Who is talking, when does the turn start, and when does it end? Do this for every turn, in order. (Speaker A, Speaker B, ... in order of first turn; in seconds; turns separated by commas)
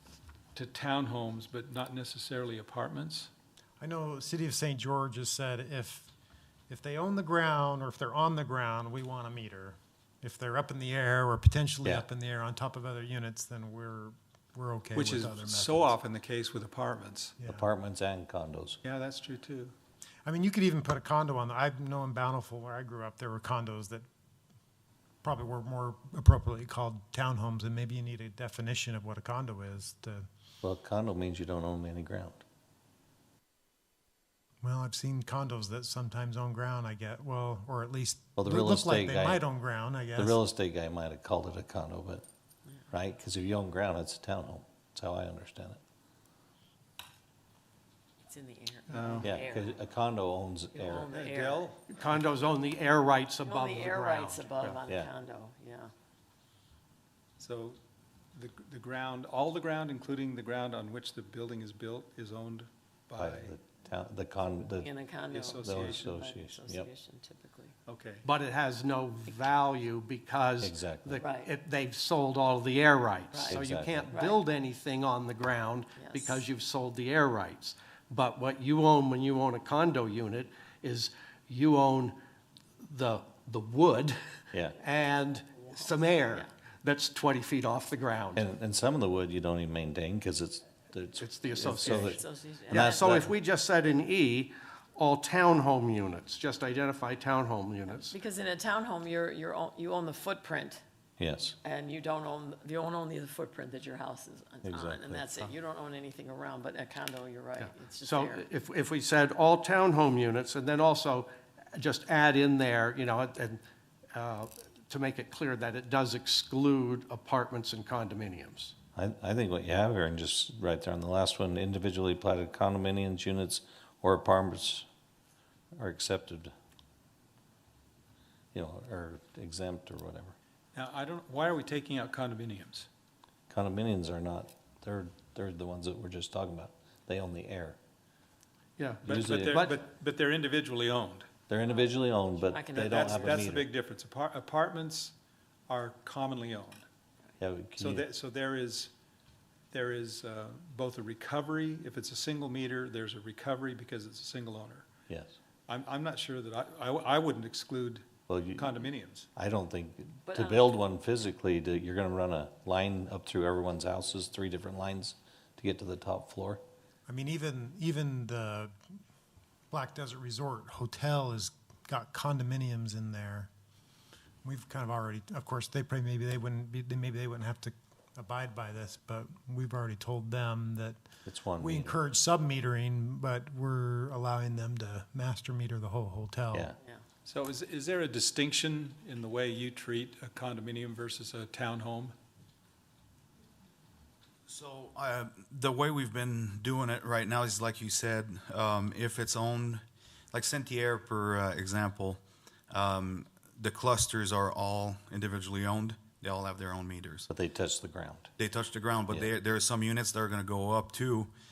Speaker A: 0.6-3.3, Speaker B: 3.8-6.1, Speaker B: 6.7-16.0, Speaker A: 14.9-17.3, Speaker C: 17.4-18.8, Speaker A: 18.8-19.7, Speaker B: 20.2-24.1, Speaker B: 25.2-30.3, Speaker C: 30.6-32.4, Speaker B: 34.6-40.4, Speaker C: 38.4-39.4, Speaker C: 40.2-42.2, Speaker C: 42.9-45.8, Speaker D: 48.2-49.7, Speaker A: 48.9-49.3, Speaker C: 49.2-51.1, Speaker D: 50.8-51.7, Speaker A: 51.0-51.8, Speaker E: 51.9-54.8, Speaker D: 53.4-55.9, Speaker A: 57.4-57.8, Speaker A: 58.3-63.5, Speaker C: 63.2-64.9, Speaker D: 64.8-67.8, Speaker A: 65.3-66.1, Speaker C: 65.6-66.9, Speaker A: 67.9-68.2, Speaker E: 68.2-82.2, Speaker C: 70.6-71.2, Speaker D: 71.2-71.5, Speaker D: 73.3-74.5, Speaker C: 73.5-74.1, Speaker D: 76.0-76.4, Speaker E: 82.8-84.2, Speaker E: 84.8-88.5, Speaker C: 88.3-93.3, Speaker E: 91.2-98.2, Speaker D: 91.7-93.3, Speaker D: 98.0-100.8, Speaker C: 101.2-101.6, Speaker D: 101.6-108.5, Speaker C: 104.6-105.5, Speaker E: 107.6-113.6, Speaker E: 114.1-118.7, Speaker C: 119.0-124.9, Speaker C: 125.8-126.5, Speaker C: 128.5-130.3, Speaker A: 130.7-132.9, Speaker C: 133.5-137.8, Speaker E: 138.8-139.8, Speaker C: 139.1-139.6, Speaker A: 139.1-141.3, Speaker C: 141.5-143.7, Speaker D: 142.4-143.5, Speaker A: 142.8-145.1, Speaker A: 145.7-146.8, Speaker C: 147.4-148.0, Speaker A: 147.8-148.9, Speaker A: 149.7-154.9, Speaker C: 155.1-155.3, Speaker A: 155.7-159.3, Speaker C: 158.3-158.8, Speaker C: 159.4-166.6, Speaker D: 160.3-160.7, Speaker B: 167.1-168.7, Speaker B: 169.7-173.5, Speaker B: 174.4-181.1, Speaker C: 181.3-182.0, Speaker B: 181.6-186.7, Speaker A: 187.3-192.2, Speaker F: 194.5-207.3, Speaker C: 207.3-208.3, Speaker F: 208.4-211.3